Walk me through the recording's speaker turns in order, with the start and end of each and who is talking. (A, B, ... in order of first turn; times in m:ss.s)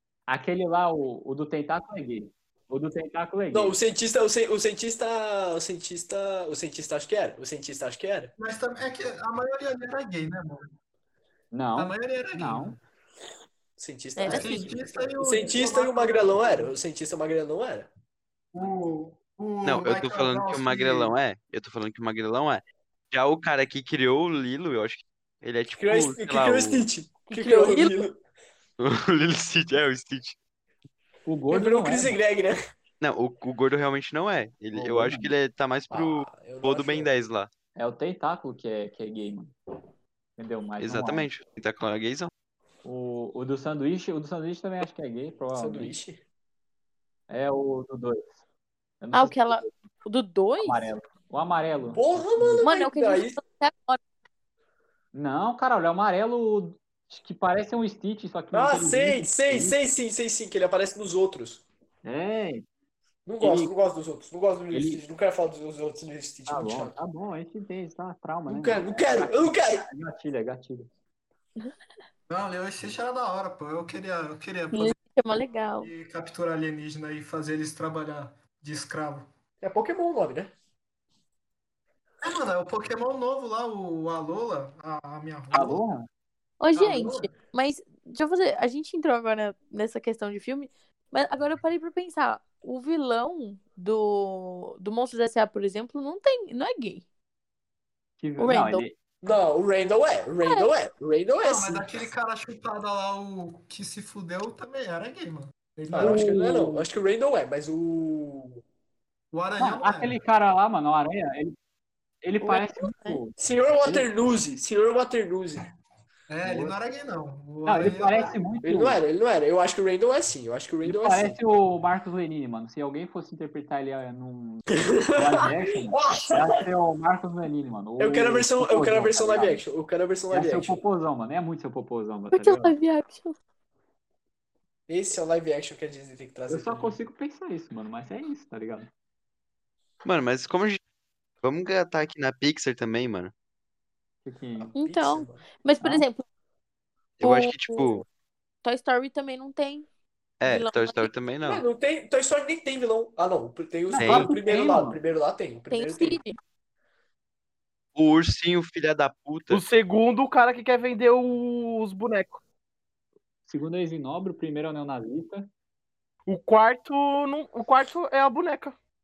0:00.3-0:03.8 A
0:03.5-0:08.3 B
0:08.4-0:10.7 C
0:11.5-0:12.8 A
0:11.8-0:12.8 C
0:13.8-0:17.9 B
0:14.2-0:14.7 D
0:14.2-0:16.7 C
0:18.5-0:21.1 C
0:19.6-0:26.9 E
0:25.8-0:28.2 B
0:27.3-0:27.9 D
0:28.8-0:30.4 E
0:31.2-0:32.2 A
0:31.5-0:32.6 B
0:33.0-0:37.5 E
0:34.7-0:35.3 A
0:35.9-0:37.1 B
0:37.8-0:39.5 A
0:40.4-0:41.3 A
0:40.8-0:42.3 E
0:42.8-0:46.0 A
0:45.6-0:46.2 B
0:47.3-0:48.4 A
0:49.0-0:49.7 A
0:49.1-0:50.9 D
0:50.6-0:52.7 A
0:51.9-0:53.4 B
0:52.6-0:54.0 D
0:55.1-0:59.8 A
0:58.5-1:01.6 B
1:02.0-1:02.7 A
1:03.3-1:07.0 B
1:03.4-1:03.7 A
1:04.7-1:05.0 A
1:06.5-1:10.9 A
1:08.5-1:09.9 B
1:12.3-1:15.0 C
1:14.7-1:15.9 D
1:15.8-1:19.3 C
1:19.6-1:20.5 B
1:22.2-1:25.8 C
1:25.5-1:26.1 A
1:26.6-1:37.0 D
1:26.8-1:27.2 C
1:38.2-1:39.0 A
1:38.4-1:38.8 D
1:39.2-1:41.9 B
1:41.4-1:46.4 C
1:45.9-1:48.6 B
1:49.3-1:50.2 C
1:49.6-1:51.6 A
1:52.2-1:54.1 A
1:52.4-1:53.2 D
1:53.4-1:55.6 B
1:56.3-1:58.4 C
1:56.4-1:56.8 A
1:57.6-1:59.0 A
1:58.6-2:01.4 B
2:00.8-2:09.6 A
2:04.8-2:06.6 B
2:08.0-2:10.8 B
2:10.3-2:12.8 A
2:12.3-2:13.4 D
2:14.9-2:17.0 B
2:16.5-2:18.9 A
2:20.0-2:20.8 E
2:21.4-2:23.3 E
2:24.2-2:24.7 A
2:24.6-2:25.4 B
2:24.8-2:26.2 D
2:27.2-2:28.0 E
2:27.2-2:28.0 D
2:28.6-2:29.9 D
2:30.4-2:31.6 E
2:30.4-2:31.1 D
2:31.4-2:36.2 B
2:33.9-2:35.0 A
2:34.0-2:34.3 E
2:35.7-2:36.4 D
2:38.0-2:39.6 E
2:39.5-2:42.4 F
2:43.5-2:45.5 A
2:46.3-2:48.8 F